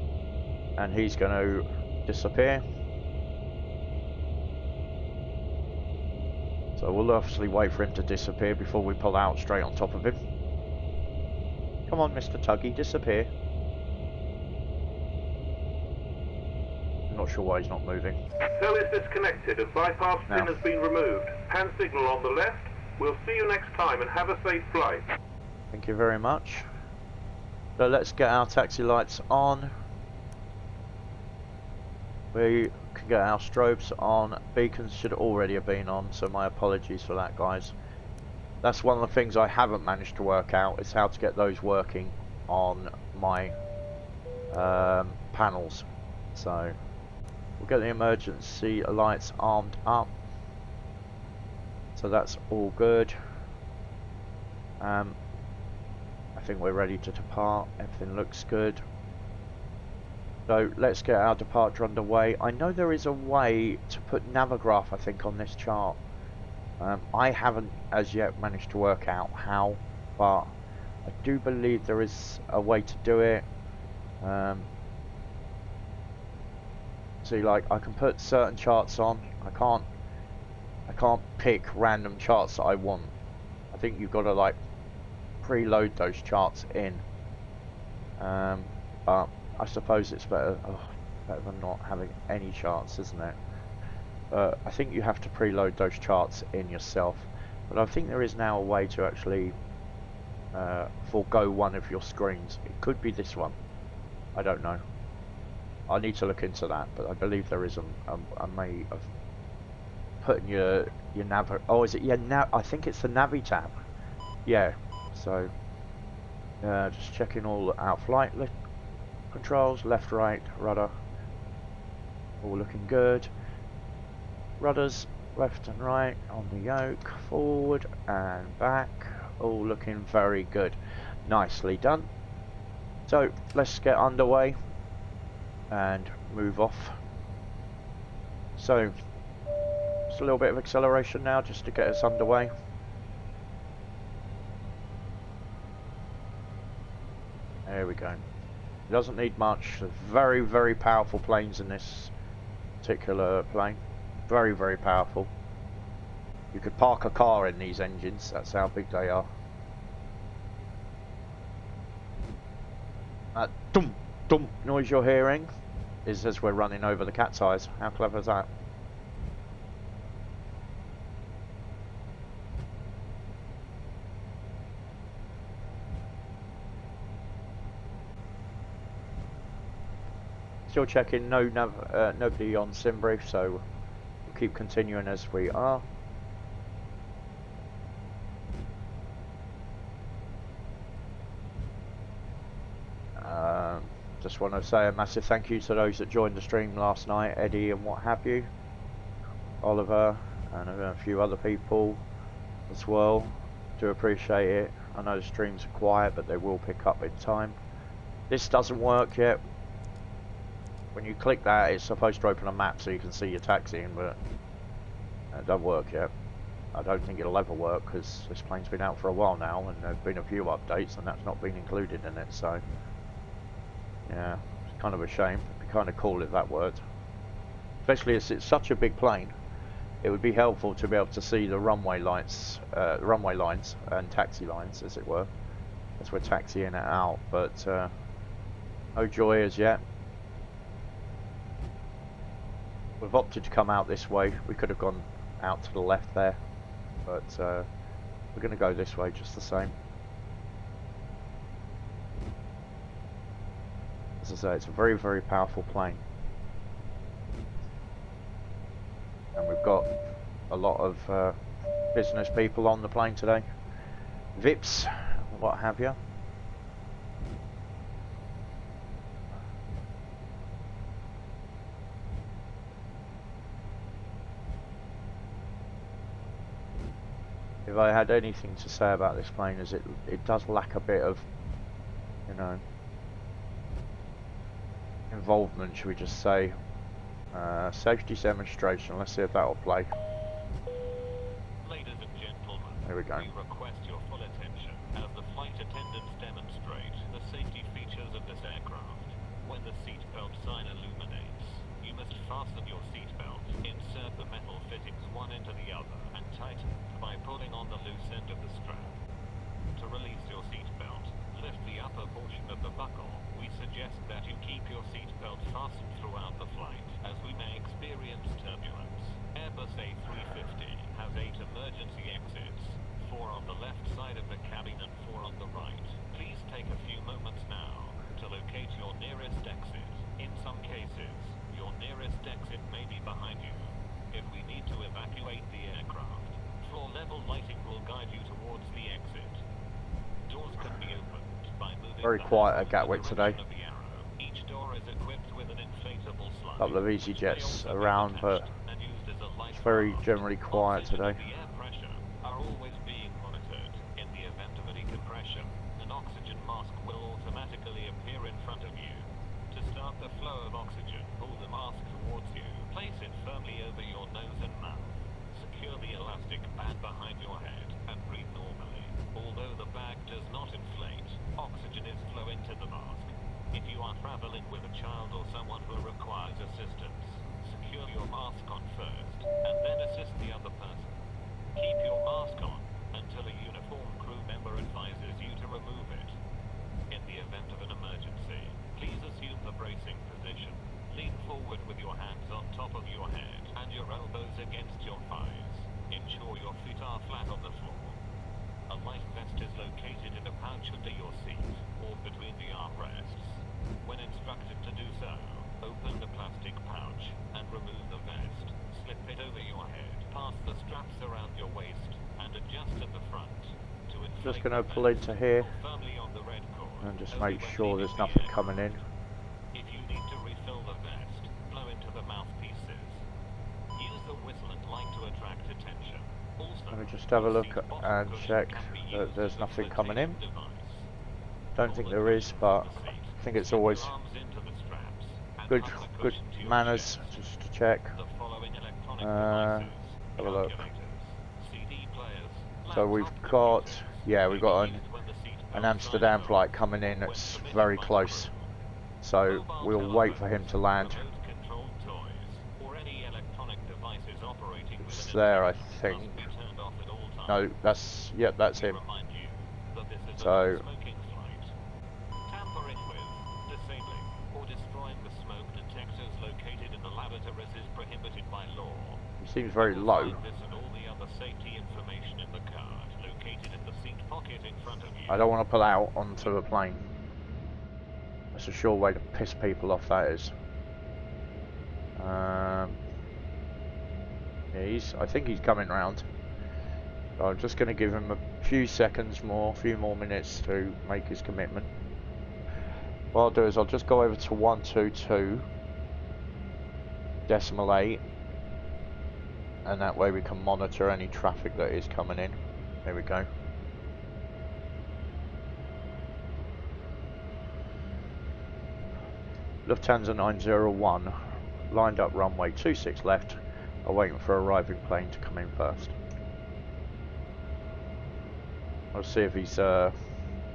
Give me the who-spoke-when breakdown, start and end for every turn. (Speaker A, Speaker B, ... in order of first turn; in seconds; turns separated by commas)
Speaker A: 0.8-2.6, Speaker A: 6.8-10.2, Speaker A: 11.9-13.3, Speaker A: 17.1-18.2, Speaker B: 18.4-25.1, Speaker A: 20.3-20.6, Speaker A: 25.7-26.6, Speaker A: 27.8-29.7, Speaker A: 32.3-37.7, Speaker A: 38.6-43.5, Speaker A: 44.5-46.8, Speaker A: 47.6-50.1, Speaker A: 52.0-53.2, Speaker A: 54.8-55.2, Speaker A: 56.4-58.8, Speaker A: 60.5-66.0, Speaker A: 66.8-70.5, Speaker A: 71.0-73.5, Speaker A: 74.2-74.7, Speaker A: 77.2-79.8, Speaker A: 80.9-83.1, Speaker A: 83.7-84.6, Speaker A: 85.4-87.0, Speaker A: 88.2-93.4, Speaker A: 94.3-99.5, Speaker A: 100.5-103.5, Speaker A: 104.3-104.8, Speaker A: 105.9-109.1, Speaker A: 110.2-113.8, Speaker A: 114.5-115.5, Speaker A: 116.6-118.5, Speaker A: 119.3-120.9, Speaker A: 122.4-123.3, Speaker A: 124.6-132.1, Speaker A: 133.1-134.6, Speaker A: 135.7-137.0, Speaker A: 138.6-138.9, Speaker A: 140.1-142.5, Speaker A: 147.7-148.2, Speaker A: 148.9-152.1, Speaker A: 152.8-155.3, Speaker A: 156.5-159.3, Speaker A: 163.3-165.5, Speaker A: 166.1-168.5, Speaker A: 180.7-183.6, Speaker A: 184.2-185.8, Speaker A: 193.2-198.5, Speaker A: 199.6-202.0, Speaker A: 202.7-207.6, Speaker A: 208.3-209.4, Speaker A: 210.9-214.2, Speaker A: 215.3-216.1, Speaker A: 216.7-222.6, Speaker A: 224.1-226.8, Speaker A: 227.8-229.3, Speaker A: 230.0-235.3, Speaker A: 236.0-237.9, Speaker A: 238.9-239.8, Speaker A: 243.0-246.4, Speaker A: 247.1-247.7, Speaker A: 248.3-249.7, Speaker A: 254.2-256.0, Speaker A: 259.4-259.9, Speaker A: 260.5-261.4, Speaker A: 261.9-263.4, Speaker A: 264.4-266.0, Speaker A: 277.6-281.2, Speaker A: 282.3-282.6, Speaker A: 285.1-286.6, Speaker A: 287.3-289.9, Speaker C: 291.6-308.9, Speaker A: 292.8-293.3, Speaker C: 309.7-339.4, Speaker C: 340.3-380.9, Speaker A: 342.0-343.4, Speaker A: 346.6-348.4, Speaker A: 349.5-351.2, Speaker C: 381.6-386.2, Speaker C: 386.9-398.0, Speaker C: 398.7-418.8, Speaker A: 414.2-415.5, Speaker A: 416.8-418.8, Speaker C: 419.5-423.0, Speaker C: 423.8-430.9, Speaker A: 426.7-430.2, Speaker A: 431.6-432.7, Speaker C: 431.6-437.1, Speaker A: 433.2-433.9, Speaker A: 435.5-437.9, Speaker C: 437.9-446.4, Speaker A: 439.0-440.6, Speaker A: 442.7-444.8, Speaker A: 445.5-448.3, Speaker C: 447.0-448.5, Speaker A: 449.0-451.0, Speaker C: 449.3-457.4, Speaker A: 454.8-456.2, Speaker A: 457.3-458.8, Speaker C: 458.5-461.5, Speaker A: 460.2-460.6, Speaker C: 462.3-469.0, Speaker A: 469.2-470.2, Speaker C: 469.6-475.2, Speaker A: 475.1-476.8, Speaker A: 478.3-480.3, Speaker A: 481.9-482.8, Speaker A: 484.5-486.0, Speaker A: 487.2-491.7, Speaker A: 493.1-495.4, Speaker A: 497.3-498.0, Speaker A: 499.6-503.3, Speaker A: 509.6-511.2, Speaker A: 511.7-515.9, Speaker A: 518.9-520.0